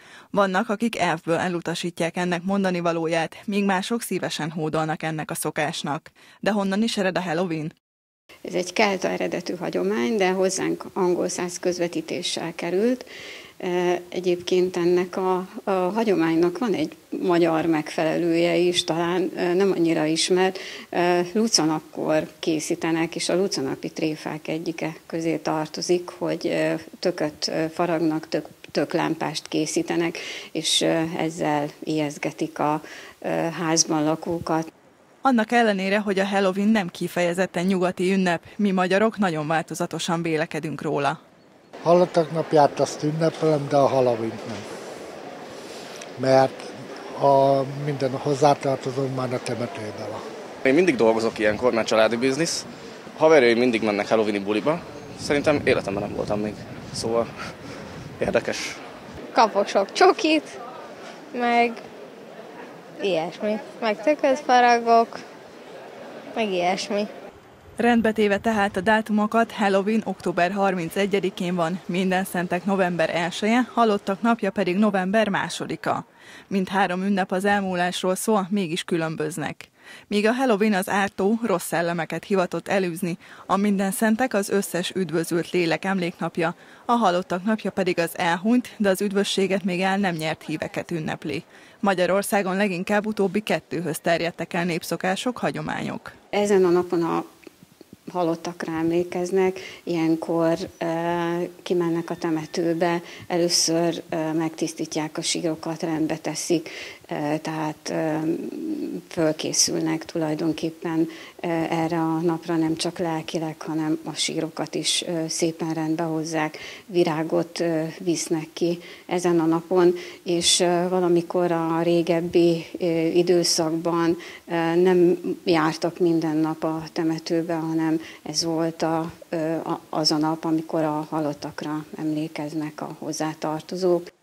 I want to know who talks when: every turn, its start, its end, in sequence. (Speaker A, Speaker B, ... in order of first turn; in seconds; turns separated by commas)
Speaker A: 0.3-7.7, Speaker B: 8.5-13.1, Speaker B: 13.6-34.7, Speaker A: 35.2-41.2, Speaker C: 41.8-44.7, Speaker C: 46.2-50.2, Speaker D: 50.6-52.7, Speaker D: 53.2-57.7, Speaker D: 58.2-58.8, Speaker E: 59.3-60.5, Speaker E: 61.3-61.8, Speaker E: 63.0-65.2, Speaker E: 66.3-67.1, Speaker A: 67.8-96.1, Speaker B: 96.3-97.3, Speaker B: 98.1-134.1